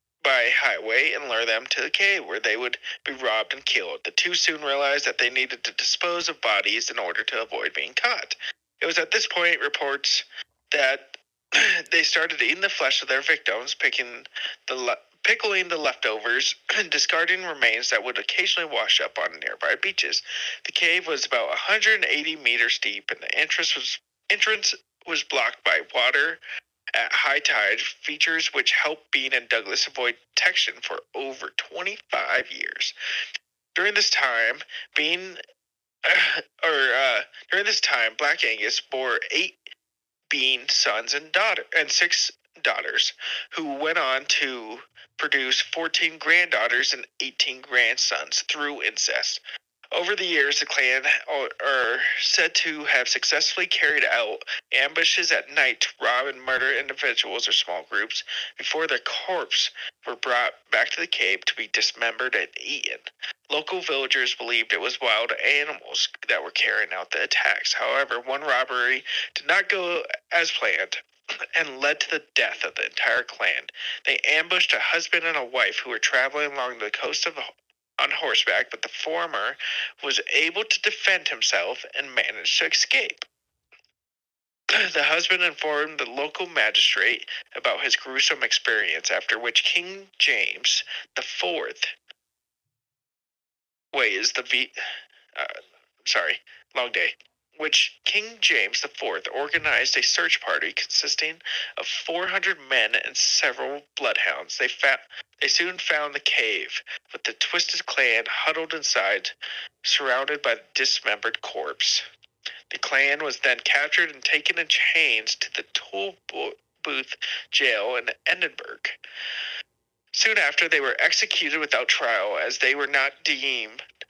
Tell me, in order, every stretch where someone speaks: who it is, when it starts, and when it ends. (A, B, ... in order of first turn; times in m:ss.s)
0:00.2-0:26.4 A
0:26.9-0:32.9 A
0:33.7-0:35.4 A
0:36.0-0:39.6 A
0:40.3-0:49.4 A
0:49.9-1:11.0 A
1:11.5-1:23.2 A
1:24.7-1:31.9 A
1:33.9-1:34.7 A
1:35.3-1:52.0 A
1:52.7-1:59.0 A
2:00.1-2:03.8 A